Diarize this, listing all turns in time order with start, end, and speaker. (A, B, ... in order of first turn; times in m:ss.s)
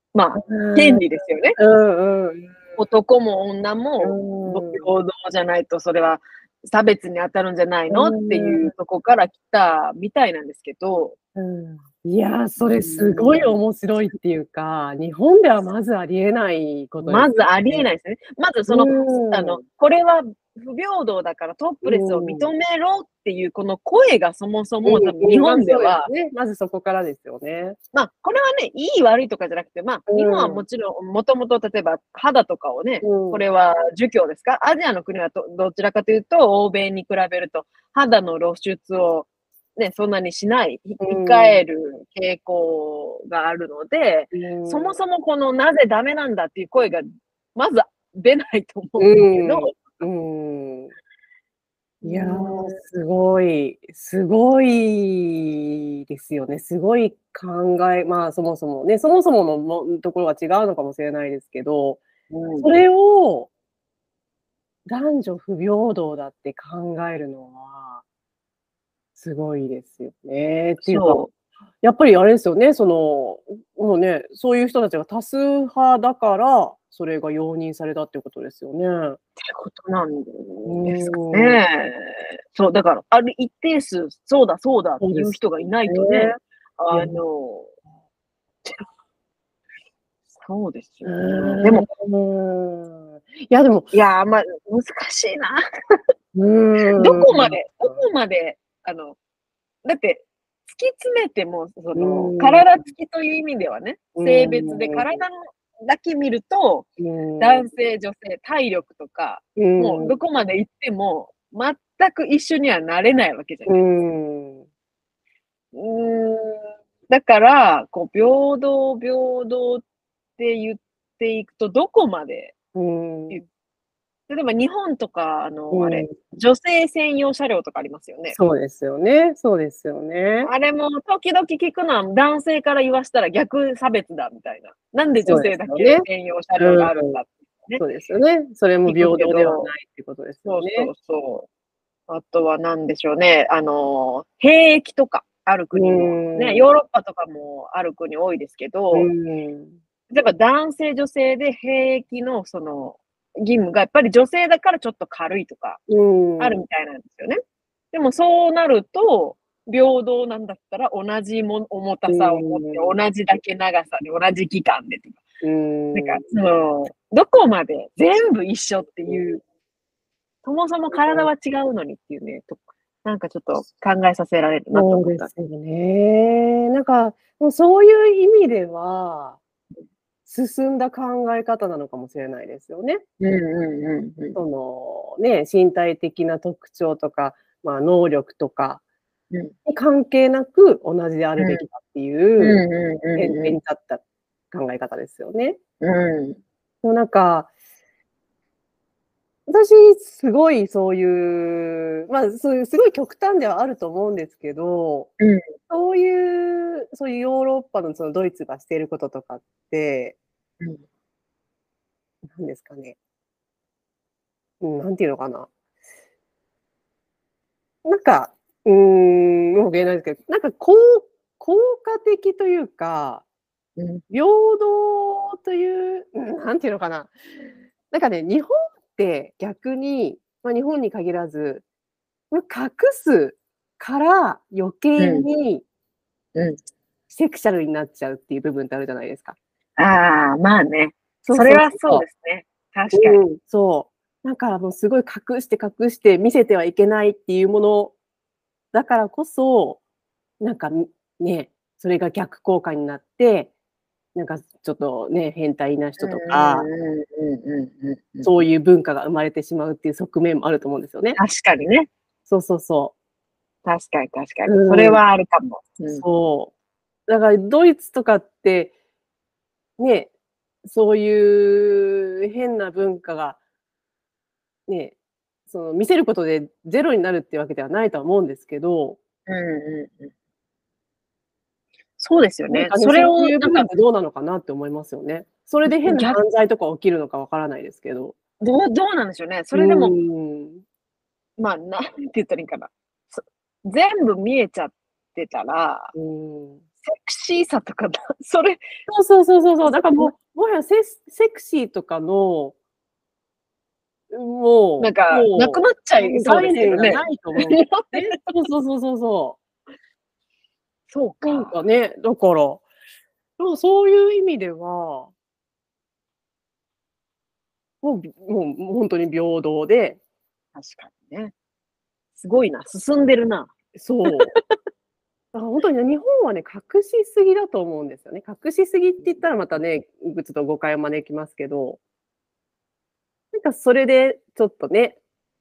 0:00.1-0:01.6 A
0:00.3-0:02.9 B
0:02.8-0:11.2 A
0:04.0-0:04.9 B
0:07.9-0:08.7 B
0:11.3-0:17.8 B
0:12.6-0:13.6 A
0:17.0-0:26.1 A
0:18.7-0:19.6 B
0:21.8-0:22.5 B
0:24.8-0:27.8 B
0:27.9-0:50.0 A
0:30.1-0:30.6 B
0:33.0-0:33.4 B
0:41.0-0:41.6 B
0:44.3-0:45.0 B
0:49.0-0:50.9 B
0:52.0-0:52.8 A
0:52.0-1:02.0 B
1:02.3-1:02.8 A
1:02.6-1:03.5 B
1:04.8-1:08.0 B
1:09.2-1:11.2 B
1:10.8-1:11.3 A
1:11.8-1:19.2 B
1:19.4-1:27.7 A
1:20.6-1:21.6 B
1:25.0-1:26.4 B
1:26.9-1:27.2 B
1:30.4-1:31.9 A
1:31.0-1:33.9 B
1:33.9-1:36.0 A
1:36.3-1:38.0 B
1:36.8-1:39.2 A
1:39.8-1:46.9 A
1:41.9-1:42.7 B
1:44.2-1:45.2 B
1:47.0-1:47.6 B
1:47.4-1:53.9 A
1:49.6-1:50.2 B
1:53.6-1:54.6 B
1:55.7-1:59.8 A
2:00.4-2:02.6 A
2:02.8-2:03.4 B
2:04.3-2:08.4 A
2:05.7-2:06.1 B
2:08.3-2:10.5 B
2:10.4-2:17.8 A
2:15.2-2:16.0 B
2:16.6-2:17.2 B
2:17.8-2:20.9 B
2:18.8-2:19.7 A
2:20.4-2:21.5 A
2:22.1-2:29.1 A
2:25.7-2:26.7 B
2:28.9-2:29.8 B
2:30.1-2:35.8 A
2:35.9-2:36.6 B
2:36.4-2:37.4 A
2:37.9-2:45.2 A
2:42.1-2:43.0 B
2:45.4-2:46.2 B
2:45.9-2:49.4 A
2:50.4-2:55.3 A
2:51.0-2:51.3 B
2:54.7-2:59.4 B
3:00.3-3:03.0 B
3:03.2-3:04.4 A
3:04.3-3:08.8 B
3:09.6-3:12.6 B
3:11.4-3:11.7 A
3:12.4-3:13.5 A
3:13.2-3:15.6 B
3:15.8-3:16.4 A
3:16.8-3:17.5 B
3:19.5-3:25.1 B
3:25.2-3:25.5 A
3:25.7-3:30.2 B
3:32.3-3:33.0 B
3:34.6-3:35.5 B
3:37.8-3:43.2 B
3:43.8-3:44.0 A
3:44.1-3:47.1 B
3:47.9-3:51.6 B
3:52.3-3:55.6 B
3:55.0-3:55.3 A
3:57.1-3:59.4 B
3:59.8-4:03.2 A
4:01.2-4:02.0 B
4:02.9-4:07.9 B
4:08.7-4:09.8 B
4:10.4-4:13.5 B
4:14.1-4:16.7 B
4:16.0-4:18.4 A
4:18.2-4:21.2 B
4:21.2-4:21.9 A
4:22.3-4:22.9 B
4:23.6-4:26.0 A
4:24.4-4:25.0 B
4:26.0-4:26.5 B
4:27.1-4:28.7 B
4:29.8-4:30.1 B
4:30.6-4:33.4 B
4:34.7-4:35.0 B
4:35.5-4:39.0 B
4:39.3-4:40.1 A
4:42.0-4:43.7 A
4:42.5-4:48.2 B
4:45.6-4:46.2 A
4:48.4-4:49.9 A
4:49.5-4:50.6 B
4:51.4-4:55.9 A
4:55.9-4:56.6 B
4:56.8-4:58.7 A
4:58.9-5:02.6 B
4:59.6-5:00.1 A
5:04.1-5:09.4 B
5:04.8-5:08.3 A
5:10.9-5:11.6 A
5:11.2-5:12.6 B
5:13.4-5:15.1 B
5:17.8-5:20.0 B
5:20.5-5:21.3 A
5:22.1-5:23.5 A
5:23.7-5:24.3 B
5:25.3-5:31.8 B
5:33.3-5:35.0 B